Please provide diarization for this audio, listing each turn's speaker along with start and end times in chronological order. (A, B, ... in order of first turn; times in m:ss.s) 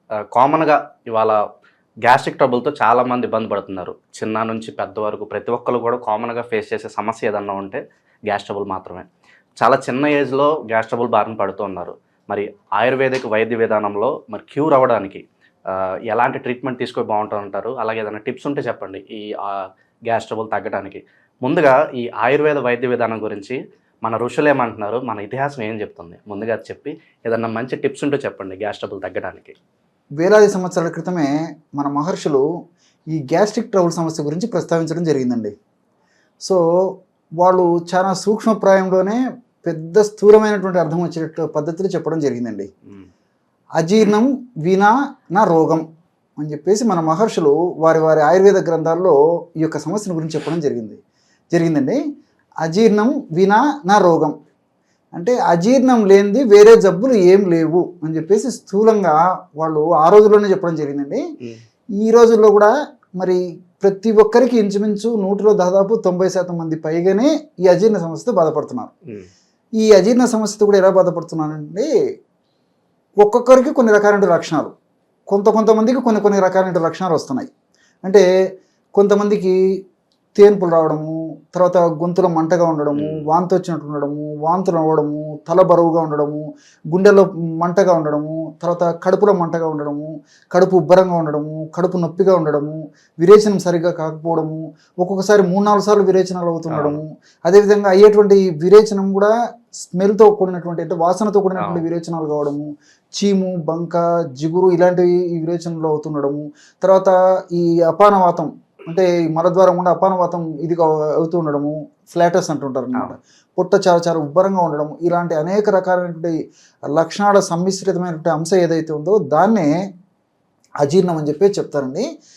0:00.3-0:01.4 A
0:02.0-0:09.1 A
0:09.6-0:15.2 A
0:15.7-0:29.6 A
0:30.2-0:32.4 B
0:33.1-0:35.5 B
0:37.4-0:42.7 B
0:43.8-0:45.8 B
0:46.4-0:51.0 B
0:51.5-0:52.0 B
0:52.6-0:54.3 B
0:55.1-1:01.2 B
1:02.0-1:08.9 B
1:09.8-1:11.9 B
1:13.2-1:14.7 B
1:15.3-1:17.5 B
1:19.0-1:19.5 B
1:20.4-1:39.3 B
1:23.0-1:23.3 A
1:36.7-1:37.0 A
1:39.8-1:56.3 B
1:41.6-1:41.8 A
1:56.9-1:59.7 B
2:00.8-2:02.1 B